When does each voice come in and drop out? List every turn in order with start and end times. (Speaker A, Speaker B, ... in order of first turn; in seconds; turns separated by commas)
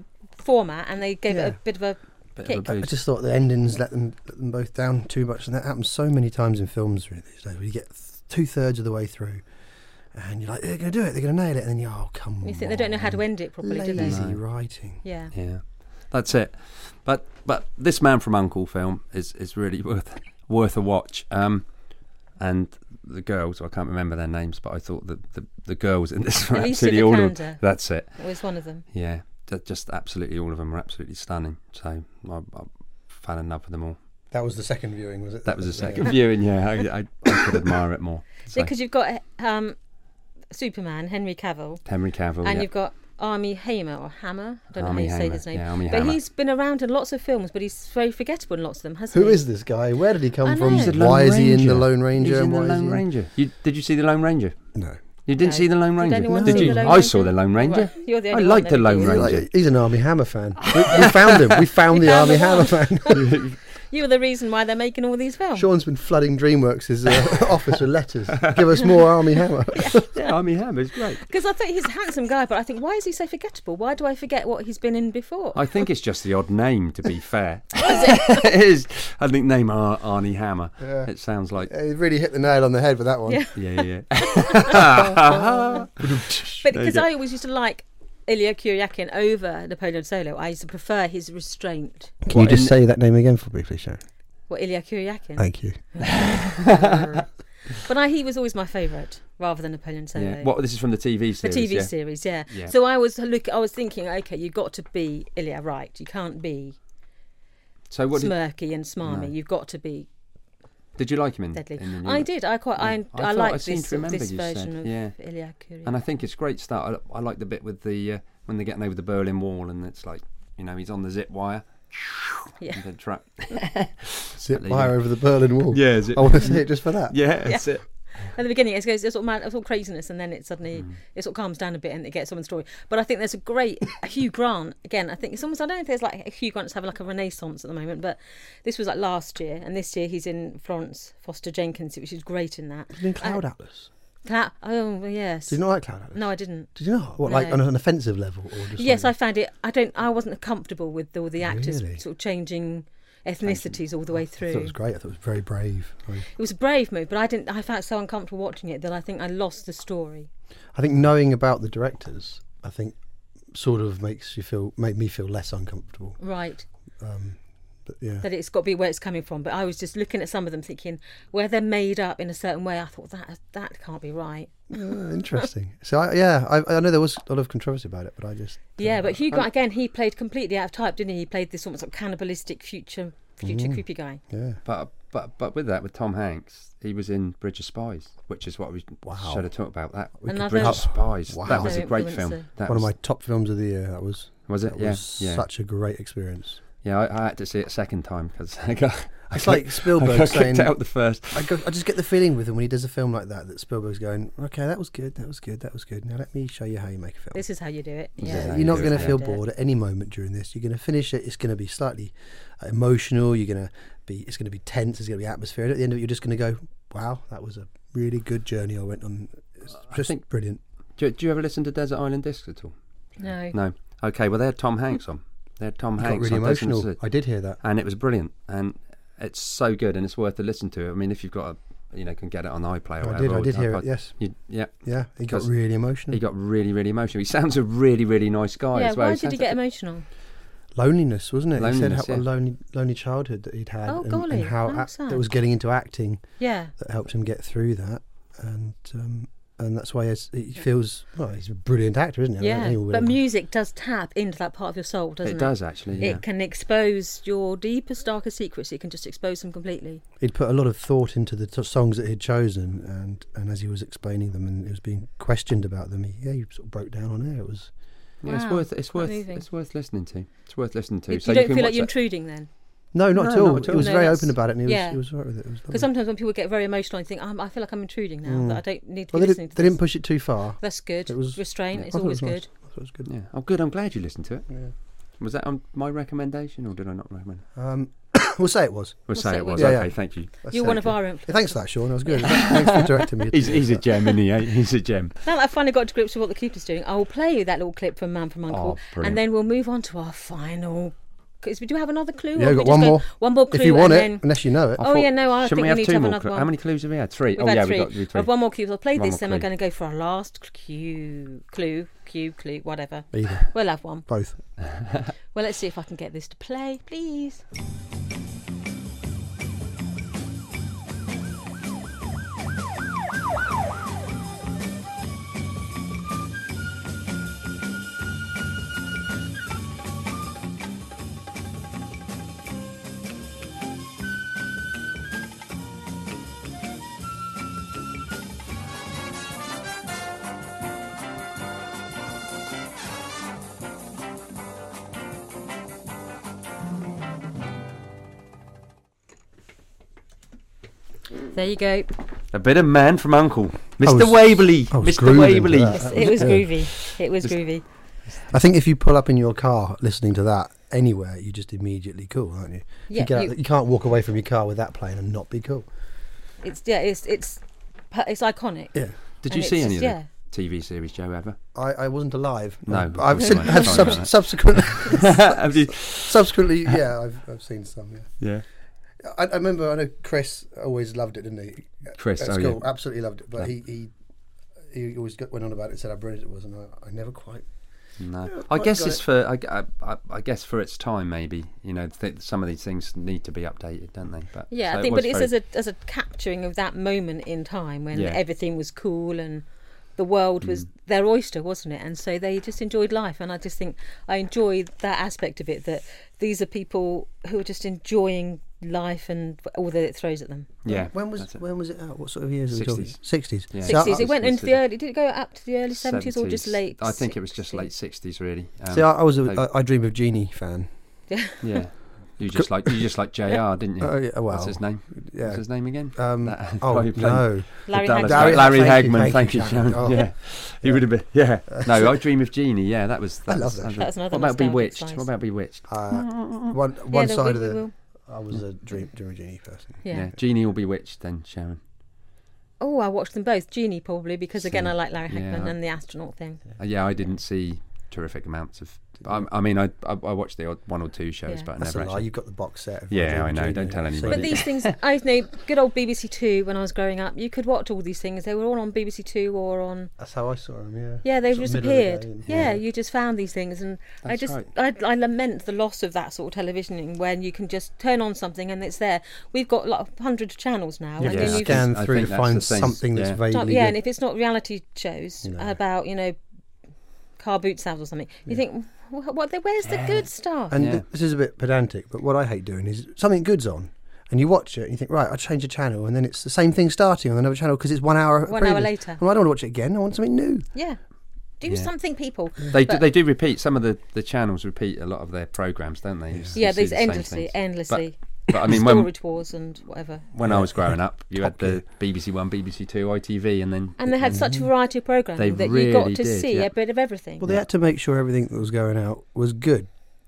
Speaker A: 0.4-2.7, Speaker B: 1.3-1.6, Speaker C: 2.4-2.9, Speaker B: 2.6-9.4, Speaker B: 10.1-15.0, Speaker A: 12.4-14.2, Speaker C: 14.0-14.4, Speaker A: 15.0-15.3, Speaker C: 15.3-21.7, Speaker C: 22.4-28.2, Speaker A: 26.5-27.6, Speaker A: 28.1-28.8, Speaker C: 28.9-34.0, Speaker B: 34.3-36.2, Speaker C: 35.5-38.7, Speaker A: 38.5-39.8, Speaker A: 40.5-41.8, Speaker C: 41.9-42.7, Speaker A: 42.4-49.4, Speaker C: 44.8-46.2, Speaker B: 49.1-53.0, Speaker A: 50.4-51.0, Speaker C: 50.6-54.5, Speaker C: 55.2-59.5, Speaker A: 55.4-59.2, Speaker B: 56.2-57.0, Speaker B: 59.0-63.4, Speaker C: 60.8-61.4, Speaker A: 61.9-65.7, Speaker C: 63.1-63.6, Speaker B: 65.5-70.1, Speaker A: 69.7-70.3, Speaker C: 70.1-71.2, Speaker A: 71.2-75.6, Speaker C: 75.5-81.7, Speaker A: 77.8-78.2, Speaker B: 80.8-83.5, Speaker A: 83.3-83.5, Speaker C: 83.5-87.0, Speaker A: 84.3-84.6, Speaker B: 84.7-86.6, Speaker A: 85.3-85.8, Speaker A: 86.6-92.2, Speaker B: 92.2-94.0, Speaker C: 92.3-92.7, Speaker A: 94.5-96.9, Speaker B: 95.4-97.2, Speaker C: 96.0-97.1, Speaker A: 97.7-100.5, Speaker C: 100.1-101.9, Speaker A: 101.4-106.8, Speaker C: 102.5-102.7, Speaker C: 107.9-108.4, Speaker A: 108.1-110.1, Speaker C: 109.0-109.3, Speaker C: 111.0-115.2, Speaker A: 111.5-115.9, Speaker C: 115.8-125.0, Speaker B: 124.4-127.2, Speaker C: 125.7-127.8, Speaker A: 127.5-143.4, Speaker B: 142.9-143.9, Speaker A: 144.2-147.6, Speaker B: 145.5-149.1, Speaker A: 148.8-154.7, Speaker B: 151.4-152.0, Speaker B: 153.4-156.3, Speaker A: 156.3-160.3, Speaker B: 160.7-163.0, Speaker B: 163.5-166.2, Speaker A: 166.2-166.7, Speaker B: 167.0-168.2, Speaker A: 168.2-174.8, Speaker B: 174.7-179.3, Speaker A: 178.8-184.2, Speaker B: 183.4-184.6, Speaker C: 184.6-192.9, Speaker B: 189.1-189.5, Speaker B: 190.2-196.6, Speaker A: 190.3-192.5, Speaker C: 194.5-195.4, Speaker C: 196.8-201.6, Speaker B: 199.3-207.4, Speaker A: 207.3-209.4, Speaker B: 208.2-220.6, Speaker C: 208.2-209.2, Speaker C: 219.9-220.2, Speaker C: 221.0-222.7, Speaker A: 223.2-223.6, Speaker C: 223.5-227.0, Speaker B: 226.0-227.6, Speaker C: 227.6-235.5, Speaker B: 233.0-234.2, Speaker B: 234.8-236.2, Speaker C: 236.1-239.6, Speaker A: 238.7-240.1, Speaker B: 240.7-253.2, Speaker C: 241.6-242.2, Speaker A: 243.9-245.2, Speaker A: 246.4-246.7, Speaker A: 252.4-260.0, Speaker C: 255.2-256.2, Speaker B: 260.2-267.7, Speaker C: 268.2-271.9, Speaker A: 268.3-269.4, Speaker A: 271.1-272.5, Speaker B: 272.9-275.9, Speaker C: 273.1-273.9, Speaker A: 273.7-275.0, Speaker A: 275.7-279.8, Speaker B: 278.2-283.1, Speaker A: 280.6-282.5, Speaker C: 283.1-284.5, Speaker C: 285.2-287.4, Speaker B: 287.6-293.9, Speaker C: 289.1-290.3, Speaker A: 289.1-289.9, Speaker A: 290.5-292.9, Speaker C: 292.3-295.1, Speaker A: 295.2-306.5, Speaker C: 298.5-299.2, Speaker B: 302.4-304.8, Speaker C: 304.8-309.5, Speaker A: 307.3-314.1, Speaker B: 313.1-313.5, Speaker B: 314.0-314.4, Speaker A: 315.3-317.4, Speaker A: 351.3-351.9, Speaker C: 352.3-356.6, Speaker B: 353.8-356.5, Speaker A: 355.7-357.6, Speaker B: 358.3-365.7, Speaker A: 362.9-363.3, Speaker A: 366.4-370.1, Speaker C: 369.2-371.4, Speaker B: 371.5-378.1, Speaker C: 372.7-376.4, Speaker C: 378.2-378.4, Speaker B: 379.0-383.9, Speaker C: 382.0-382.7, Speaker B: 384.7-387.5, Speaker C: 388.0-395.3, Speaker B: 388.3-389.0, Speaker A: 394.5-399.4, Speaker C: 397.9-398.2, Speaker A: 400.0-410.5, Speaker C: 400.4-400.7, Speaker C: 410.6-411.3, Speaker B: 410.7-414.1, Speaker C: 412.5-414.6, Speaker A: 413.6-417.7, Speaker C: 415.7-419.4, Speaker B: 418.7-420.7, Speaker A: 421.1-421.4, Speaker C: 421.4-436.5, Speaker B: 422.3-422.8, Speaker B: 423.8-432.0, Speaker A: 427.7-428.9, Speaker B: 433.3-433.8, Speaker A: 433.8-435.1, Speaker B: 435.7-440.0, Speaker A: 436.9-437.7, Speaker A: 439.8-440.1, Speaker C: 439.9-441.6, Speaker A: 442.6-446.4, Speaker C: 444.5-445.6, Speaker C: 446.6-452.1, Speaker B: 451.6-454.5, Speaker C: 452.9-454.8, Speaker A: 454.1-459.9, Speaker B: 460.0-462.6, Speaker A: 461.0-471.6, Speaker C: 464.0-464.5, Speaker B: 471.0-473.8, Speaker C: 471.0-473.2, Speaker A: 473.3-476.2, Speaker B: 475.2-475.6, Speaker A: 477.2-480.6, Speaker C: 479.7-480.0, Speaker B: 480.5-490.5, Speaker C: 480.6-480.8, Speaker A: 488.3-489.0, Speaker A: 490.5-490.8, Speaker A: 491.4-492.8, Speaker C: 492.5-498.9, Speaker A: 496.4-500.1, Speaker C: 500.1-504.2, Speaker B: 500.2-501.6, Speaker A: 503.8-507.2, Speaker B: 504.0-504.5, Speaker C: 505.2-506.5, Speaker B: 507.2-509.7